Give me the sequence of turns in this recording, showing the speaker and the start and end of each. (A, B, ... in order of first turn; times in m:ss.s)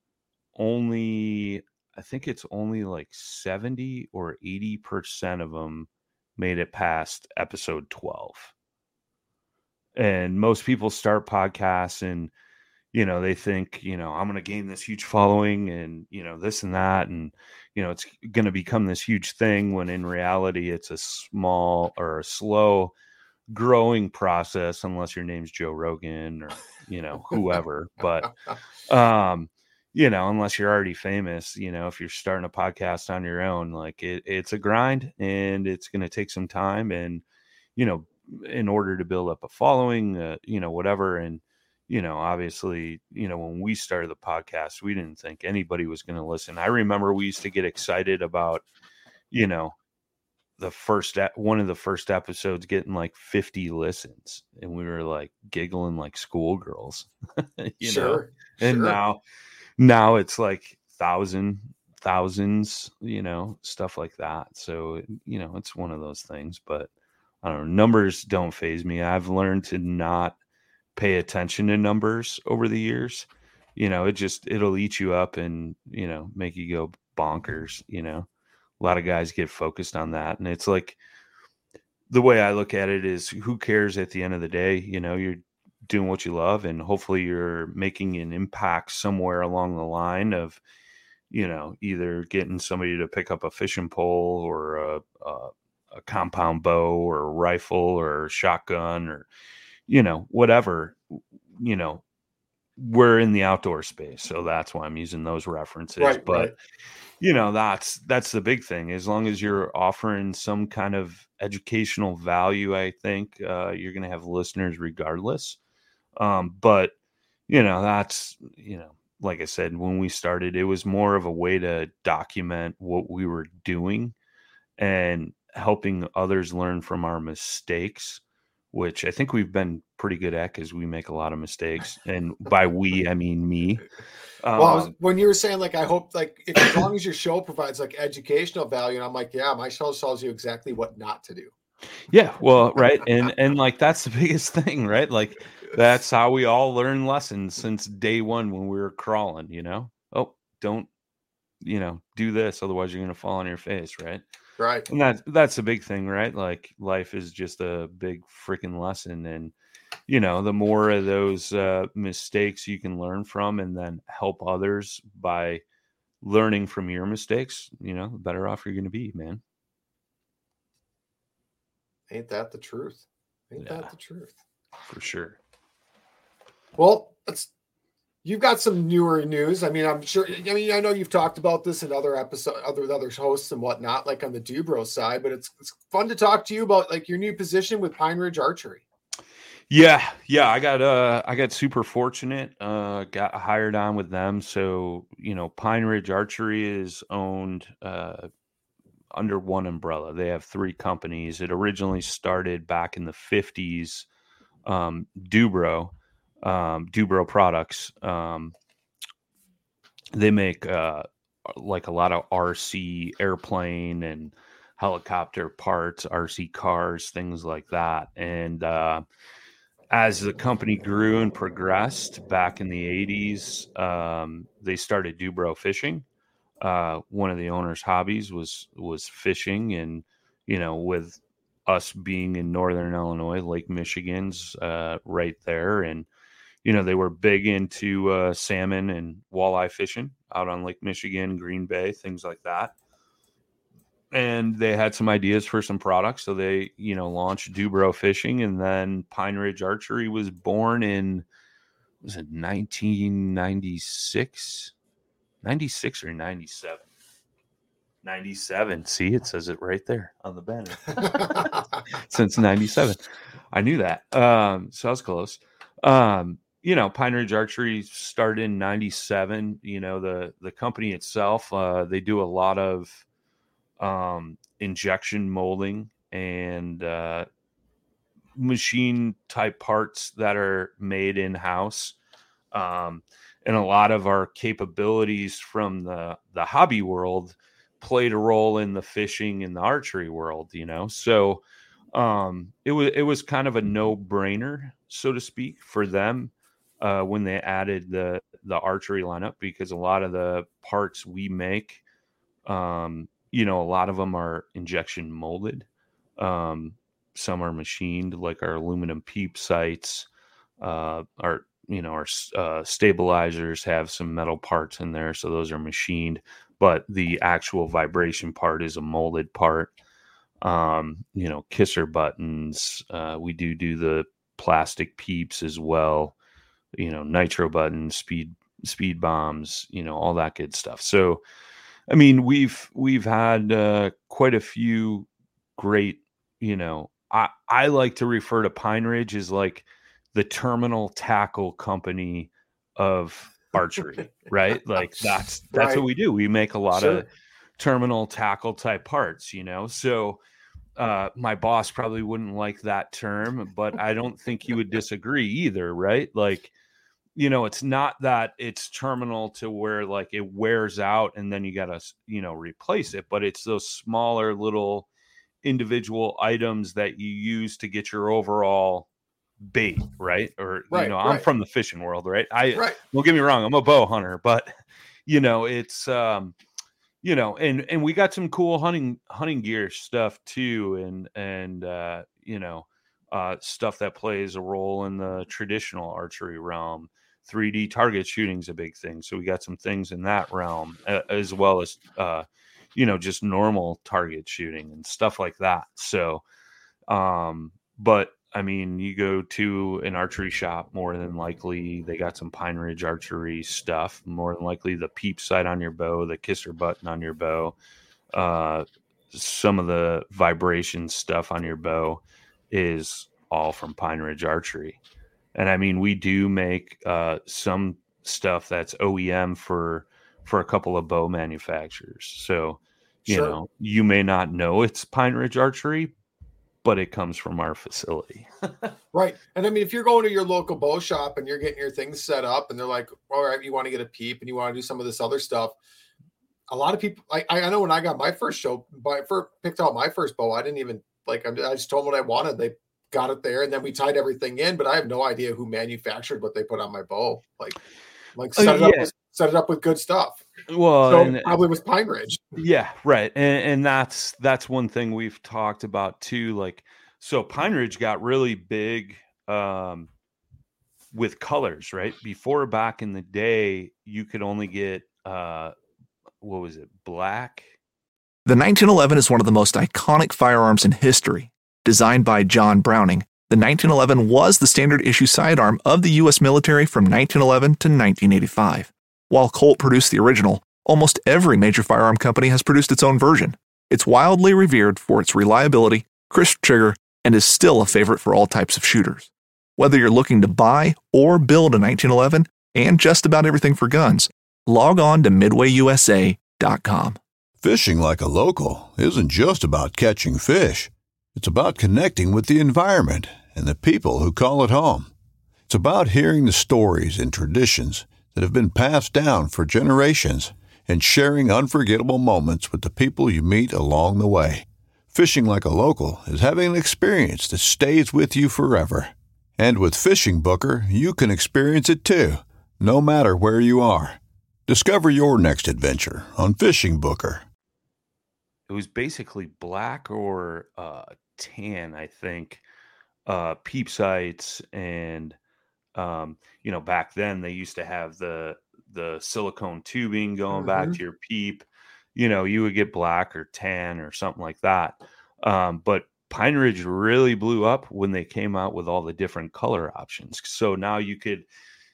0:00.5-0:08.5 A
0:10.0-0:12.3 A
0:12.9-0:22.9 A
0:23.5-0:28.3 A
0:28.8-0:37.2 A
0:37.8-0:48.6 A
0:49.3-0:49.8 A
0:50.6-0:59.2 A
0:57.8-0:59.0 B
0:59.8-1:06.9 A
1:07.4-1:10.4 A
1:11.0-1:18.3 A
1:18.8-1:21.0 A
1:22.1-1:30.6 A
1:31.3-1:39.3 A
1:39.9-1:42.0 A
1:42.8-1:46.5 A
1:46.0-1:46.5 B
1:47.2-1:55.6 A
1:56.2-1:56.9 A
1:57.5-2:04.1 A
2:04.8-2:08.2 A
2:08.7-2:13.8 A
2:14.4-2:14.9 A
2:14.6-2:21.5 B
2:22.1-2:30.9 A
2:31.6-2:34.2 A
2:34.6-2:34.9 B
2:34.9-2:39.5 A
2:40.1-2:45.6 A
2:46.2-2:49.4 A
2:52.1-2:54.3 B
2:53.6-2:53.9 A
2:54.9-2:55.4 A
2:56.8-2:57.5 B
2:58.2-3:08.8 B
3:09.7-3:18.3 A
3:19.1-3:24.1 A
3:24.6-3:28.5 A
3:30.1-3:39.0 A
3:39.9-3:46.0 A
3:46.6-3:56.1 A
3:56.6-4:02.7 A
4:04.1-4:11.2 A
4:12.0-4:14.7 A
4:15.4-4:16.8 A
4:18.0-4:23.0 A
4:21.2-4:21.5 B
4:23.5-4:33.0 A
4:33.8-4:37.3 A
4:38.4-4:41.9 A
4:42.5-5:01.8 A
5:02.4-5:05.7 A
5:06.2-5:10.1 A
5:10.6-5:19.7 A
5:20.4-5:26.2 A
5:26.8-5:31.2 A
5:31.9-5:50.2 A
5:45.5-5:45.8 B
5:46.7-5:47.0 B
5:50.8-5:56.5 A
5:57.1-6:04.9 A
6:05.4-6:08.9 A
6:09.5-6:14.5 A
6:10.7-6:11.3 B
6:12.5-6:12.8 B
6:15.1-6:16.3 A
6:17.0-6:36.2 A
6:36.9-6:47.5 A
6:48.1-6:54.8 A
6:55.3-7:05.9 A
7:03.1-7:03.4 B
7:06.6-7:08.7 A
7:08.9-7:15.6 B
7:16.5-7:27.6 B
7:28.1-7:30.2 B
7:28.4-7:28.9 A
7:30.5-7:31.4 A
7:30.8-7:32.4 B
7:32.3-7:39.9 A
7:40.9-7:45.5 A
7:46.2-7:47.5 A
7:48.2-8:17.0 C
8:17.4-8:24.9 D
8:25.5-8:47.2 D
8:48.5-8:52.4 A
8:53.0-8:55.2 A
8:55.7-9:11.3 A
9:00.3-9:00.8 B